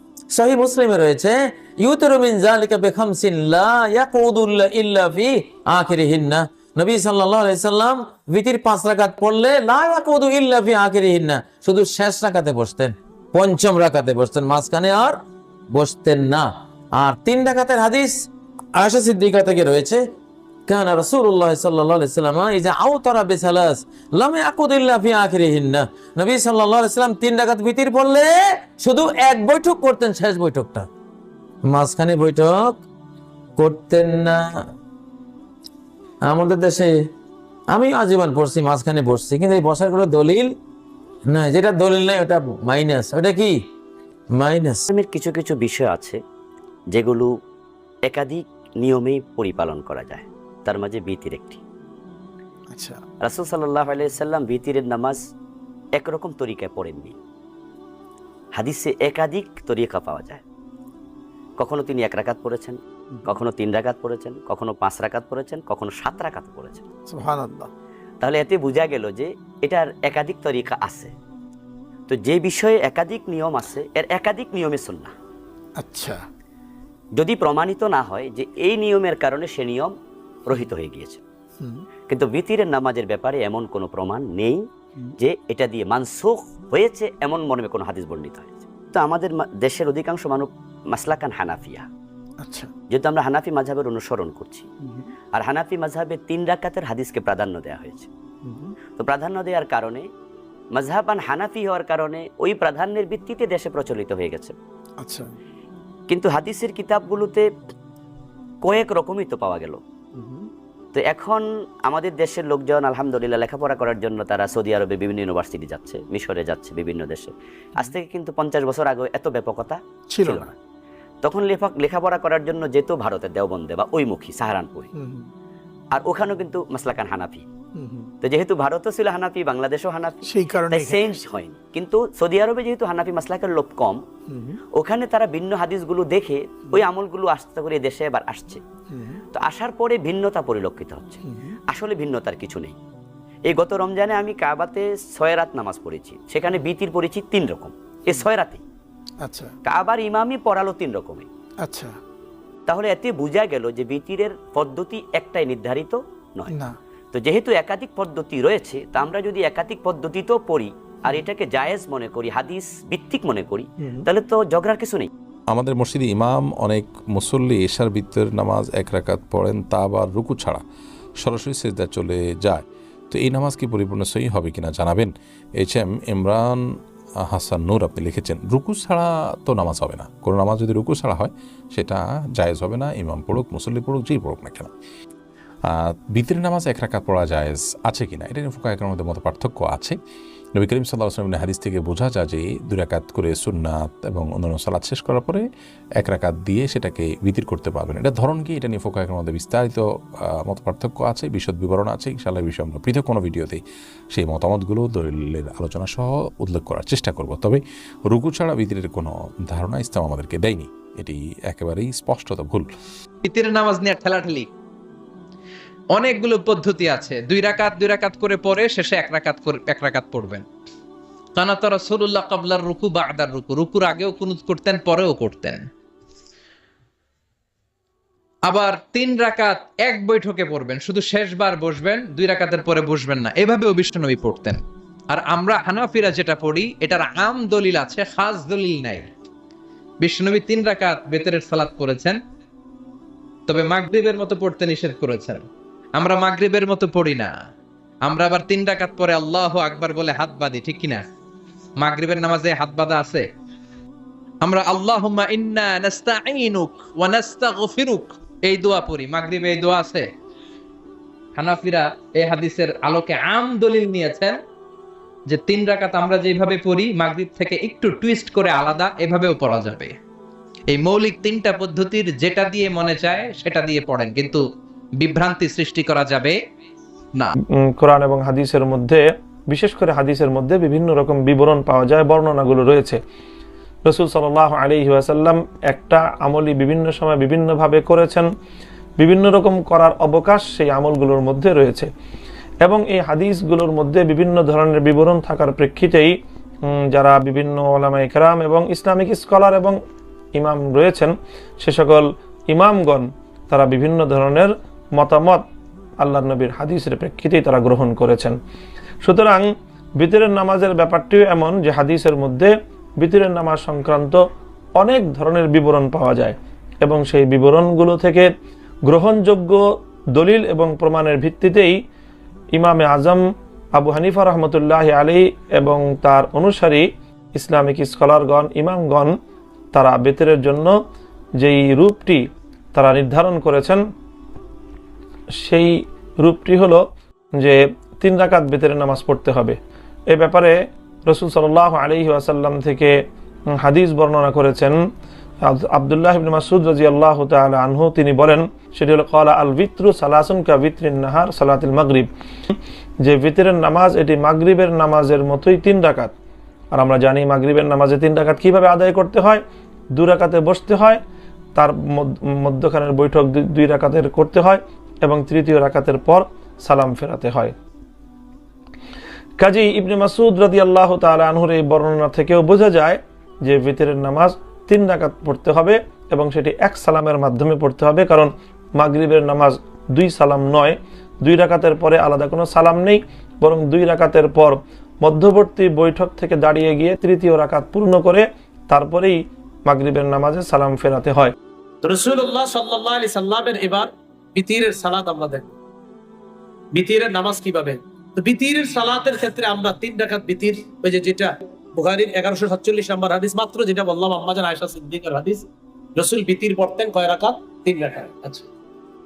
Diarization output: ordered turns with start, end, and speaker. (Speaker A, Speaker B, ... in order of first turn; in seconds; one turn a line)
Speaker A: 0.3-15.2
Speaker A: 15.7-18.2
Speaker A: 18.8-20.0
Speaker A: 20.7-30.9
Speaker A: 31.7-32.8
Speaker A: 33.6-34.6
Speaker A: 36.3-36.9
Speaker A: 37.7-40.5
Speaker A: 41.3-43.6
Speaker A: 44.3-44.9
Speaker B: 44.9-46.2
Speaker B: 46.9-47.3
Speaker B: 48.0-51.6
Speaker C: 52.7-53.0
Speaker B: 53.2-55.2
Speaker B: 56.0-57.2
Speaker B: 58.6-60.4
Speaker B: 61.6-66.8
Speaker C: 67.1-67.7
Speaker B: 68.2-71.1
Speaker B: 72.1-75.1
Speaker C: 75.8-76.2
Speaker B: 77.2-79.9
Speaker B: 80.5-81.2
Speaker B: 82.1-84.6
Speaker B: 85.2-91.9
Speaker C: 92.4-92.7
Speaker B: 92.9-94.7
Speaker B: 95.3-98.1
Speaker B: 99.0-100.0
Speaker B: 100.8-104.5
Speaker C: 105.0-105.3
Speaker B: 106.1-107.4
Speaker B: 108.6-109.8
Speaker C: 110.2-110.5
Speaker B: 110.9-120.5
Speaker B: 121.2-124.9
Speaker C: 125.0-125.2
Speaker B: 125.9-127.4
Speaker C: 127.8-128.1
Speaker B: 128.2-134.0
Speaker C: 130.3-131.2
Speaker B: 134.7-138.6
Speaker B: 139.3-142.8
Speaker B: 143.5-148.6
Speaker C: 149.2-149.5
Speaker B: 149.7-151.2
Speaker C: 151.6-151.9
Speaker B: 152.7-156.6
Speaker B: 157.1-165.1
Speaker D: 165.5-170.6
Speaker D: 171.2-176.6
Speaker D: 177.2-184.7
Speaker D: 185.7-190.0
Speaker D: 190.6-195.4
Speaker D: 196.0-199.8
Speaker D: 200.4-203.6
Speaker D: 204.1-212.7
Speaker E: 213.2-214.5
Speaker E: 215.9-220.4
Speaker E: 221.4-225.6
Speaker E: 228.5-239.1
Speaker E: 240.0-242.2
Speaker E: 243.5-245.4
Speaker E: 245.9-247.3
Speaker E: 248.0-251.0
Speaker E: 251.8-253.3
Speaker E: 254.4-260.1
Speaker E: 261.4-264.4
Speaker E: 265.3-269.9
Speaker E: 270.7-274.4
Speaker E: 275.0-276.4
Speaker F: 277.6-283.0
Speaker F: 283.9-288.3
Speaker F: 289.0-291.9
Speaker F: 292.6-296.1
Speaker F: 296.7-299.8
Speaker F: 300.4-305.4
Speaker F: 306.0-308.4
Speaker F: 309.0-309.5
Speaker F: 310.0-314.2
Speaker F: 314.8-318.3
Speaker F: 318.9-319.6
Speaker F: 320.1-321.8
Speaker F: 322.6-323.2
Speaker F: 323.8-329.1
Speaker F: 329.7-330.7
Speaker F: 331.4-333.8
Speaker F: 335.4-336.8
Speaker F: 337.4-339.6
Speaker F: 340.1-342.9
Speaker F: 343.5-344.8
Speaker F: 345.4-352.1
Speaker F: 353.0-356.1
Speaker F: 356.7-359.4
Speaker F: 359.9-361.0
Speaker F: 361.5-367.5
Speaker F: 369.4-391.3
Speaker G: 391.8-395.5
Speaker G: 396.8-408.4